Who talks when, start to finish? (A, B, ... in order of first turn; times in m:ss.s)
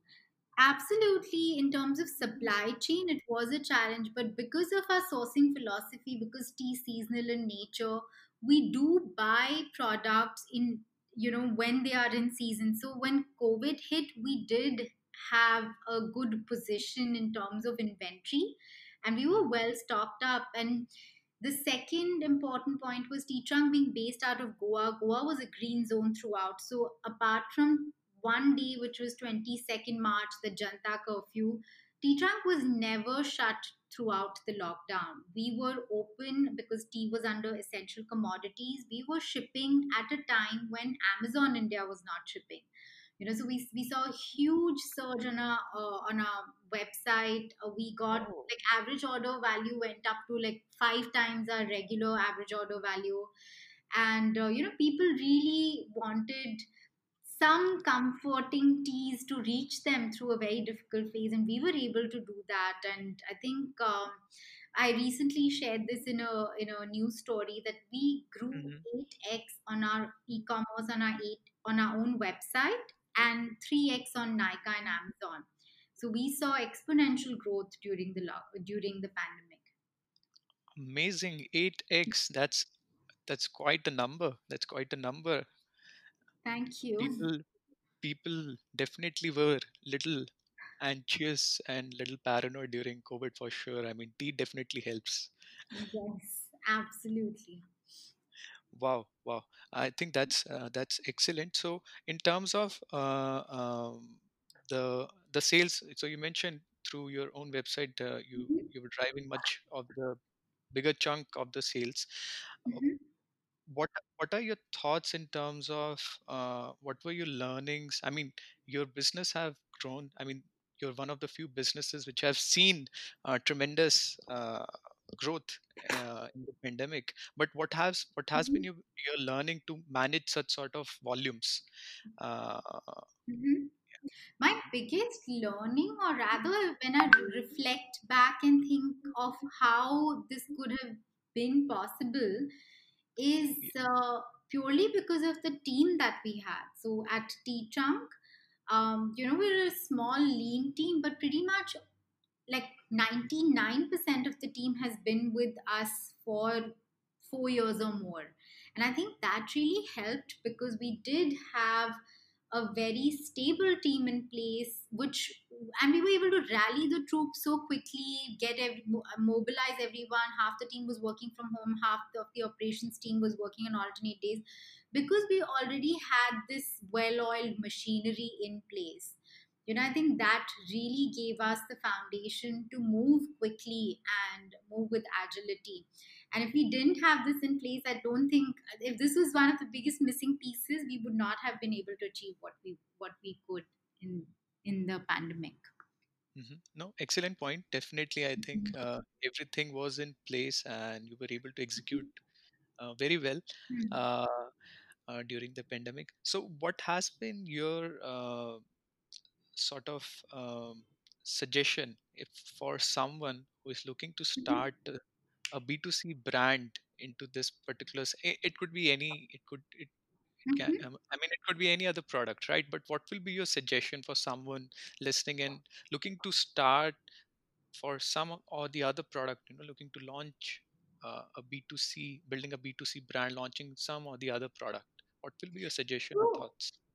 0:00.6-0:20.9 A
0:21.4-0:42.7 A
0:43.2-0:53.3 A
0:48.1-0:48.5 B
0:53.9-0:56.6 A
0:57.2-1:04.2 A
1:04.8-1:19.7 A
1:08.5-1:08.8 B
1:20.7-1:22.7 B
1:23.2-1:25.5 B
1:26.4-1:27.3 A
1:27.0-1:27.4 B
1:28.0-1:30.3 B
1:30.8-1:35.3 B
1:35.7-1:37.7 A
1:38.7-1:50.2 B
1:48.4-1:48.7 A
1:50.7-1:52.8 B
1:52.7-1:53.0 A
1:53.7-2:11.6 B
2:08.4-2:08.6 A
2:12.2-2:13.1 B
2:13.3-2:13.7 A
2:14.4-2:22.5 A
2:23.2-2:28.1 A
2:28.7-2:31.8 A
2:32.5-2:42.0 A
2:42.5-3:15.6 A
3:16.3-3:22.2 B
3:22.8-3:24.5 B
3:23.7-3:24.0 A
3:25.1-3:28.6 B
3:29.6-3:35.0 B
3:34.4-3:34.6 A
3:35.5-3:39.9 B
3:40.5-3:40.8 A
3:40.5-3:47.0 B
3:47.7-3:56.8 B
3:56.1-3:56.4 A